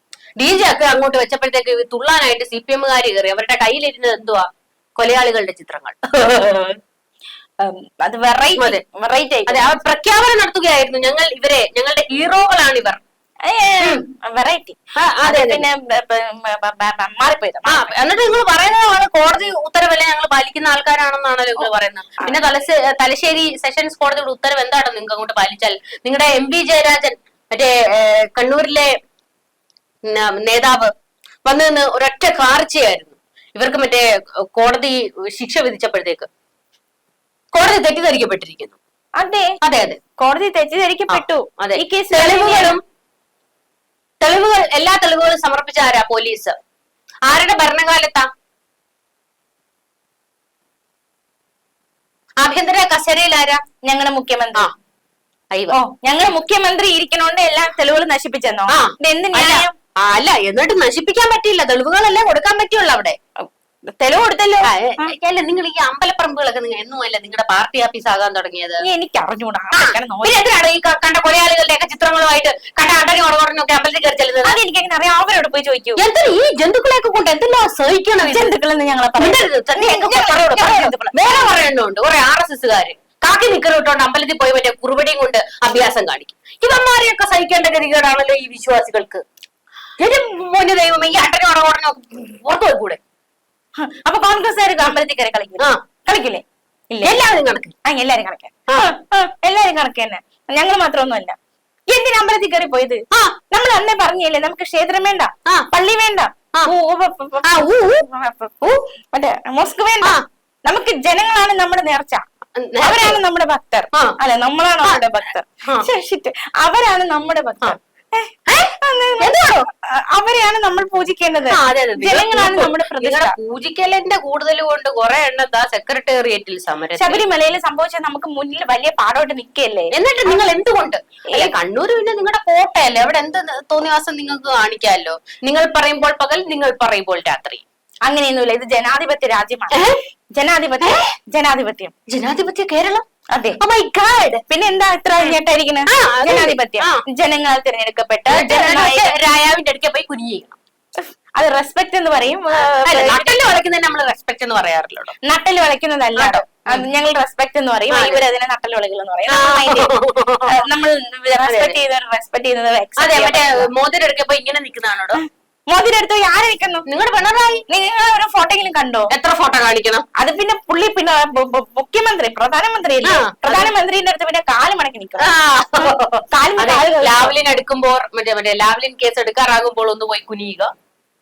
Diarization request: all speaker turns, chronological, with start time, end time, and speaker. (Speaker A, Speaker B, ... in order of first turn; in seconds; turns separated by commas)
Speaker A: 0.4-6.8, Speaker B: 7.6-9.7, Speaker A: 9.5-13.0, Speaker B: 13.4-17.9, Speaker A: 15.0-15.6, Speaker A: 17.6-28.9, Speaker A: 30.1-30.9, Speaker A: 31.4-36.3, Speaker A: 37.5-38.8, Speaker B: 39.2-39.5, Speaker A: 39.6-40.0, Speaker B: 40.2-42.8, Speaker A: 41.1-42.8, Speaker A: 44.2-46.5, Speaker A: 47.2-48.3, Speaker A: 52.4-53.6, Speaker B: 53.9-54.7, Speaker B: 55.7-59.7, Speaker A: 58.7-63.2, Speaker B: 63.4-65.1, Speaker A: 64.6-68.8, Speaker B: 68.8-70.4, Speaker A: 69.7-74.6, Speaker B: 74.4-76.0, Speaker A: 76.0-78.5, Speaker B: 78.2-81.6, Speaker A: 79.2-89.2, Speaker A: 90.0-93.0, Speaker B: 93.8-97.2, Speaker A: 97.0-97.7, Speaker B: 97.8-101.3, Speaker B: 101.9-103.0, Speaker B: 103.5-110.2, Speaker A: 107.4-108.0, Speaker B: 110.7-112.2, Speaker A: 112.5-113.2, Speaker B: 112.8-123.3, Speaker A: 118.5-119.5, Speaker A: 121.5-127.2, Speaker B: 127.0-130.5, Speaker A: 129.9-137.6, Speaker B: 131.3-131.5, Speaker B: 138.1-139.8, Speaker A: 139.7-140.0, Speaker B: 140.4-141.9, Speaker A: 140.8-141.1, Speaker A: 142.1-143.1, Speaker B: 143.3-143.6, Speaker A: 143.6-144.4, Speaker B: 144.5-149.1, Speaker A: 145.2-147.0, Speaker A: 148.3-150.6, Speaker B: 151.4-153.5, Speaker A: 152.6-155.1, Speaker B: 155.3-159.9, Speaker A: 156.2-156.8, Speaker A: 157.9-158.2, Speaker A: 159.3-160.6, Speaker B: 160.4-163.7, Speaker A: 161.4-161.7, Speaker A: 163.0-165.2, Speaker B: 165.1-166.8, Speaker A: 166.9-167.6, Speaker B: 167.7-169.1, Speaker A: 169.1-170.0, Speaker B: 170.2-177.3, Speaker A: 173.0-173.7, Speaker A: 175.2-180.7